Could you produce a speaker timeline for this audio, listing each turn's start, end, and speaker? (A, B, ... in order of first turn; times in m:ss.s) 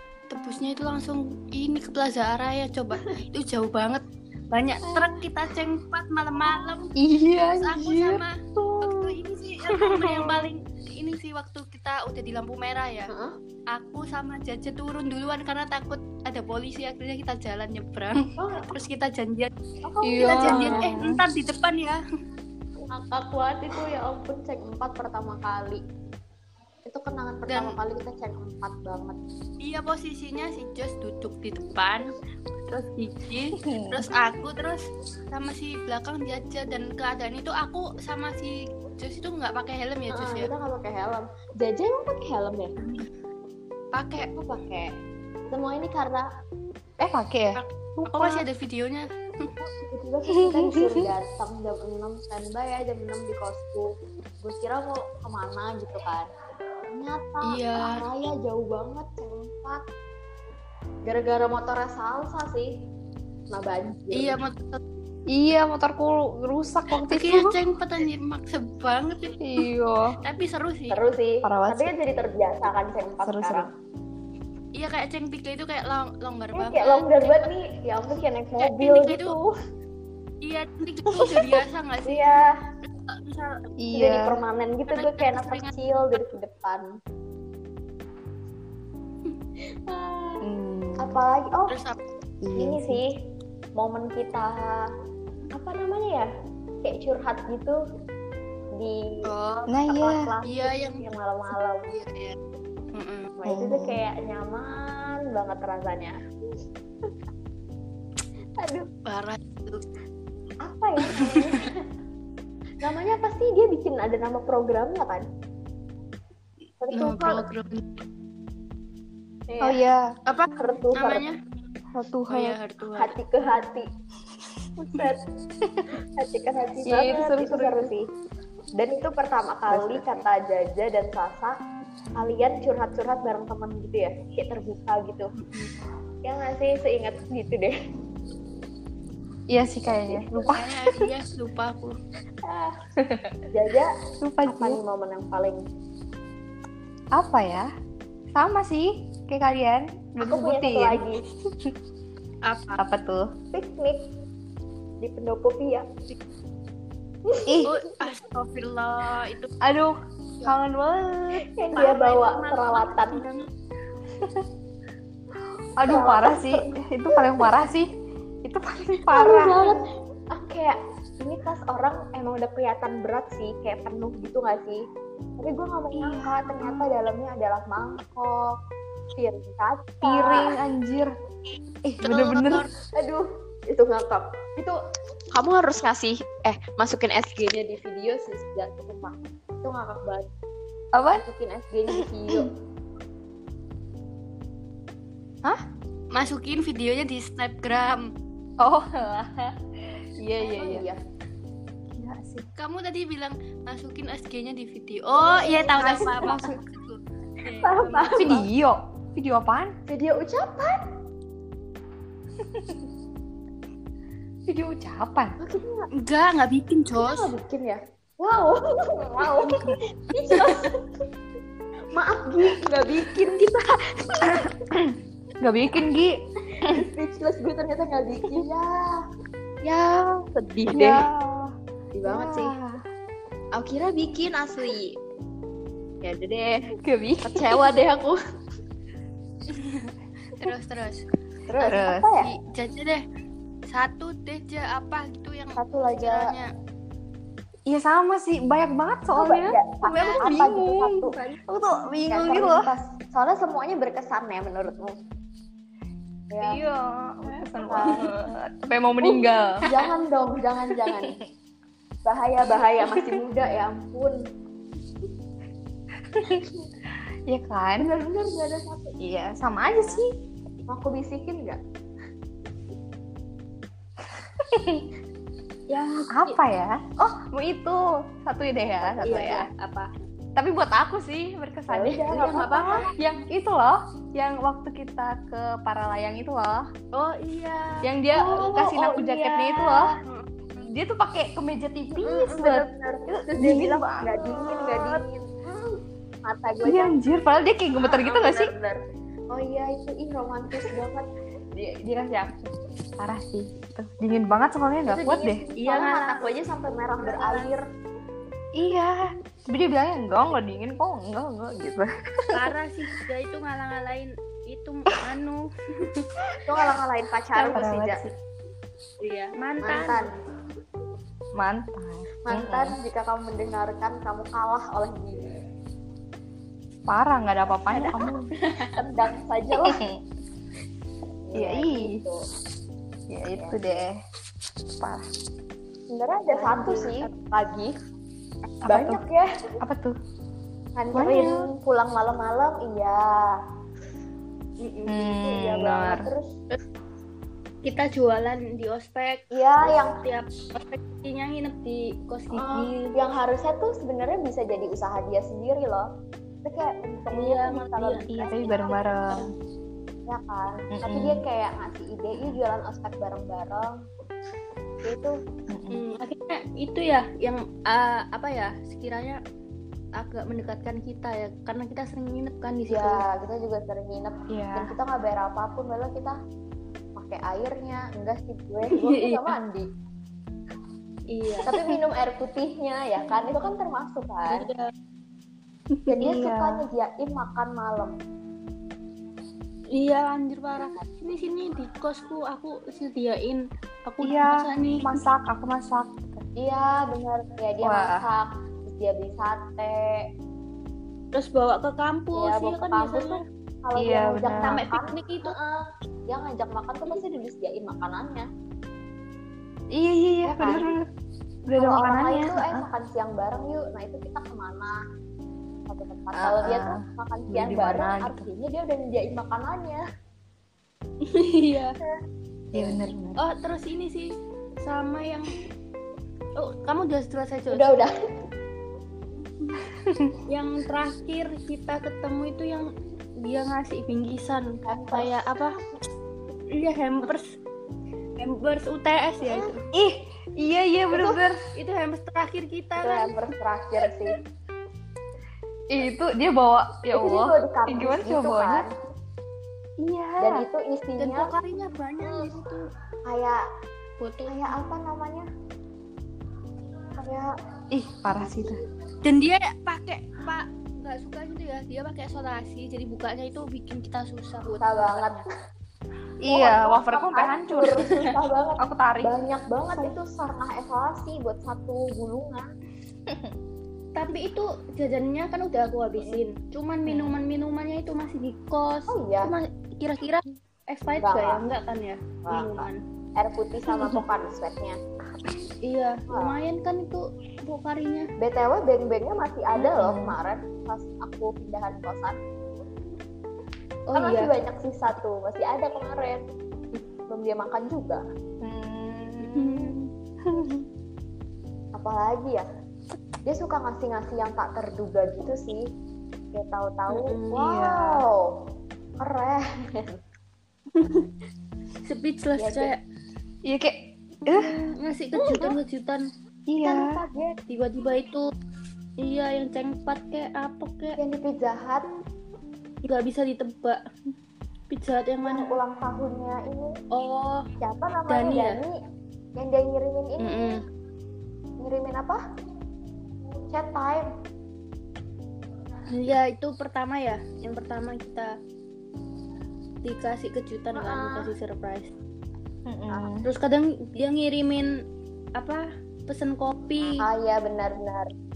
0:00.3-0:06.9 A
0:04.8-0:05.2 B
0:07.0-0:09.2 C
0:07.6-0:13.1 A
0:09.7-0:10.4 C
0:13.1-0:13.4 B
0:13.7-0:19.5 A
0:18.4-0:18.7 B
0:19.8-0:20.9 B
0:20.0-0:21.2 C
0:20.2-0:22.0 A
0:22.9-0:25.8 B
0:26.9-0:29.2 B
0:27.5-0:27.8 A
0:29.6-0:32.1 A
0:32.7-0:40.5 A
0:33.6-0:34.1 C
0:40.1-0:42.7 B
0:42.8-0:43.1 A
0:43.9-0:44.3 A
0:44.4-0:44.9 B
0:45.5-0:46.3 B
0:47.0-0:48.4 C
0:47.6-0:49.5 A
0:49.6-0:56.3 B
0:50.3-0:51.1 C
0:56.9-0:59.8 B
0:57.4-0:58.0 A
1:01.1-1:02.7 B
1:03.5-1:04.4 B
1:04.1-1:04.8 A
1:05.3-1:07.6 C
1:07.0-1:09.4 A
1:09.4-1:10.2 C
1:10.2-1:11.0 A
1:10.9-1:13.7 B
1:11.4-1:11.9 C
1:13.2-1:13.7 C
1:14.8-1:17.5 A
1:16.5-1:19.5 B
1:18.6-1:19.4 A
1:20.4-1:22.4 A
1:22.0-1:22.6 B
1:23.1-1:23.7 A
1:23.8-1:24.4 C
1:23.9-1:26.9 B
1:24.9-1:25.7 A
1:29.9-1:30.4 B
1:30.4-1:31.2 C
1:31.0-1:31.8 B
1:31.7-1:32.0 A
1:32.4-1:33.0 C
1:32.6-1:33.1 B
1:33.8-1:34.9 B
1:35.5-1:36.3 B
1:36.8-1:37.8 B
1:38.7-1:39.3 B
1:39.3-1:39.7 A
1:39.7-1:40.3 C
1:39.8-1:42.0 B
1:40.5-1:41.0 A
1:41.9-1:42.4 A
1:42.9-1:43.3 A
1:43.4-1:46.2 B
1:43.5-1:44.0 C
1:48.6-1:48.9 B
1:49.1-1:49.8 A
1:50.6-1:51.9 B
1:51.1-1:51.6 A
1:52.8-1:55.2 B
1:56.8-1:57.4 B
1:56.9-1:58.0 A
1:59.5-1:59.8 B
1:59.6-2:00.2 C
2:00.3-2:01.4 A
2:00.6-2:01.2 B
2:02.0-2:02.6 C
2:02.3-2:03.2 A
2:03.0-2:03.9 B
2:04.8-2:05.2 B
2:05.6-2:05.9 C
2:06.2-2:08.1 B
2:06.8-2:07.9 C
2:08.8-2:11.6 B
2:09.7-2:10.2 C
2:12.2-2:15.3 B
2:15.4-2:15.7 A
2:16.2-2:17.7 B
2:19.5-2:21.0 C
2:19.9-2:20.4 B
2:20.4-2:22.0 A
2:22.4-2:22.8 B
2:23.0-2:23.4 C
2:23.5-2:23.9 B
2:24.2-2:24.8 C
2:24.4-2:25.6 B
2:27.1-2:27.7 C
2:28.4-2:31.7 C
2:30.2-2:31.2 B
2:32.4-2:32.8 A
2:32.8-2:33.3 C
2:33.5-2:34.0 B
2:35.0-2:35.9 B
2:37.3-2:37.6 B
2:37.5-2:37.8 C
2:37.6-2:39.5 A
2:39.6-2:41.4 C
2:41.5-2:43.2 B
2:41.7-2:43.5 A
2:44.2-2:44.5 C
2:45.8-2:47.9 C
2:45.9-2:47.5 B
2:48.4-2:49.8 C
2:49.1-2:54.8 B
2:55.4-2:58.6 B
2:55.9-2:56.8 C
2:59.2-3:00.6 B
3:00.0-3:01.1 C
3:01.9-3:02.7 C
3:02.0-3:02.7 A
3:03.0-3:04.8 B
3:05.3-3:10.3 B
3:10.9-3:11.2 C
3:11.1-3:12.5 B
3:11.9-3:12.5 C
3:16.1-3:18.1 A
3:18.6-3:20.9 C
3:20.4-3:21.0 B
3:21.9-3:22.5 C
3:22.6-3:28.4 A
3:25.2-3:26.4 B
3:26.0-3:26.6 C
3:27.6-3:28.4 B
3:28.1-3:29.7 C
3:29.9-3:30.8 B
3:32.4-3:32.8 C
3:34.5-3:35.4 C
3:35.4-3:35.9 B
3:36.0-3:37.3 A
3:37.0-3:40.8 B
3:41.9-3:44.6 B
3:44.7-3:46.8 C
3:46.5-3:49.0 B
3:49.6-3:51.5 C
3:50.3-3:51.0 B
3:52.0-3:52.5 B
3:52.1-3:52.8 C
3:53.6-3:55.0 B
3:56.0-3:58.2 B
3:56.8-3:57.7 C
3:59.5-4:01.0 A
4:01.5-4:02.3 B
4:01.6-4:02.1 C
4:02.2-4:03.0 A
4:03.7-4:06.5 A
4:05.6-4:06.3 B
4:07.7-4:12.7 C
4:09.2-4:11.2 B
4:09.9-4:10.2 A
4:12.1-4:15.0 B
4:16.3-4:16.6 B
4:16.4-4:19.7 C
4:17.6-4:18.1 B
4:19.6-4:21.2 B
4:20.8-4:21.2 C
4:22.0-4:24.2 B
4:22.8-4:23.2 C
4:26.1-4:27.9 C
4:27.8-4:29.0 B
4:29.0-4:30.1 C
4:29.6-4:30.0 B
4:30.7-4:31.6 B
4:34.1-4:34.9 C
4:35.7-4:36.4 A
4:36.1-4:39.5 C
4:39.0-4:39.9 A
4:40.4-4:46.7 C
4:41.7-4:42.9 B
4:42.2-4:42.9 A
4:46.9-4:50.7 A
4:47.8-4:49.9 C
4:48.1-4:49.8 B
4:50.6-4:55.0 C
4:52.0-4:57.0 B
4:56.6-4:58.5 C
4:57.8-5:01.1 B
5:01.6-5:02.5 C
5:03.0-5:05.4 C
5:04.8-5:07.6 B
5:05.6-5:06.3 A
5:07.0-5:07.6 A
5:08.6-5:12.5 C
5:12.3-5:16.1 A
5:16.4-5:18.0 B
5:17.4-5:17.6 A
5:17.5-5:18.0 C
5:19.0-5:20.1 A
5:19.6-5:20.1 B
5:21.4-5:22.8 C
5:22.2-5:25.3 B
5:26.9-5:28.3 C
5:27.7-5:29.8 B
5:28.4-5:28.8 A
5:29.6-5:30.0 C
5:31.3-5:32.2 B
5:31.4-5:32.0 C
5:33.1-5:34.0 C
5:33.3-5:33.6 B
5:34.7-5:35.0 C
5:35.9-5:37.7 B
5:36.4-5:37.1 C
5:38.6-5:39.0 C
5:38.7-5:39.4 B
5:39.6-5:40.0 C
5:40.8-5:43.4 B
5:40.9-5:41.5 C
5:44.6-5:44.9 A
5:44.9-5:46.1 C
5:45.0-5:46.4 B
5:47.6-5:52.9 A
5:49.3-5:50.0 B
5:52.3-5:55.9 B
5:56.4-5:58.8 B
5:57.1-5:58.1 A
5:58.1-5:59.3 C
6:00.1-6:03.8 B
6:00.7-6:01.2 C
6:04.8-6:05.2 B
6:05.5-6:05.8 C
6:05.7-6:09.2 A
6:10.0-6:13.0 A
6:12.7-6:16.2 B
6:14.3-6:14.7 C
6:17.0-6:19.7 B
6:18.7-6:19.3 A
6:21.1-6:21.5 A
6:21.5-6:24.5 B
6:24.3-6:24.7 A
6:25.9-6:28.0 B
6:26.0-6:26.6 C
6:29.7-6:35.0 A
6:34.0-6:36.2 C
6:36.4-6:40.0 B
6:37.6-6:38.0 C
6:41.1-6:43.2 A
6:42.2-6:48.3 B
6:43.8-6:44.6 C
6:44.4-6:45.4 A
6:49.7-6:50.8 C
6:50.2-6:50.7 B
6:51.5-6:52.7 C
6:51.6-6:54.8 B
6:55.7-6:59.8 B
6:56.1-6:58.2 C
7:01.0-7:01.8 A
7:02.5-7:02.8 B
7:02.5-7:03.2 C
7:03.2-7:05.4 A
7:06.4-7:07.7 A
7:07.5-7:07.9 B
7:09.7-7:10.2 C
7:10.3-7:15.6 A
7:14.7-7:15.4 B
7:16.5-7:17.4 A
7:18.2-7:19.7 A
7:19.3-7:19.5 B
7:19.7-7:21.4 C
7:21.0-7:23.1 A
7:22.8-7:24.2 B
7:25.7-7:28.7 C
7:27.0-7:28.8 B
7:29.8-7:30.4 C
7:30.2-7:31.3 B
7:31.0-7:32.7 A
7:32.0-7:32.3 B
7:33.1-7:33.4 B
7:34.0-7:34.5 A
7:34.3-7:35.3 B
7:37.0-7:37.3 B
7:37.7-7:38.6 C
7:39.0-7:45.2 A
7:44.6-7:45.2 B
7:46.2-7:48.0 C
7:46.3-7:52.4 B
7:48.6-7:49.2 C
7:53.1-7:53.3 C
7:54.0-8:02.8 A
7:56.0-7:56.2 B
7:56.9-7:57.2 C
7:58.9-7:59.3 B
8:01.0-8:01.5 B
8:02.3-8:04.8 B
8:03.7-8:04.0 C
8:05.6-8:08.1 A
8:06.1-8:06.4 B
8:08.2-8:12.2 B
8:09.6-8:10.2 C
8:13.9-8:14.3 A
8:14.0-8:16.2 B
8:17.1-8:18.0 B
8:18.4-8:20.6 C
8:19.2-8:19.9 A
8:21.8-8:22.4 B
8:23.2-8:25.7 B
8:26.3-8:28.3 B
8:26.9-8:27.4 A
8:27.4-8:28.0 C
8:29.0-8:30.0 B
8:30.7-8:31.1 A
8:31.9-8:32.8 A
8:32.4-8:32.7 B
8:33.4-8:34.6 C
8:34.3-8:36.0 A
8:35.2-8:35.6 B
8:36.5-8:37.0 C
8:36.6-8:37.4 B
8:37.5-8:38.3 A
8:39.0-8:41.0 A
8:41.0-8:41.8 B
8:42.8-8:43.8 A
8:44.7-8:45.5 A
8:45.3-8:46.7 B
8:46.9-8:47.5 A
8:47.6-8:48.8 B
8:48.1-8:48.6 A
8:49.4-8:50.6 B
8:50.2-8:50.6 A
8:51.6-8:52.2 B
8:53.5-8:54.1 B
8:55.9-8:58.4 A
8:59.8-9:01.9 A
9:00.7-9:01.3 B
9:02.7-9:03.3 C
9:03.2-9:04.7 A
9:05.4-9:07.0 A
9:07.0-9:08.1 B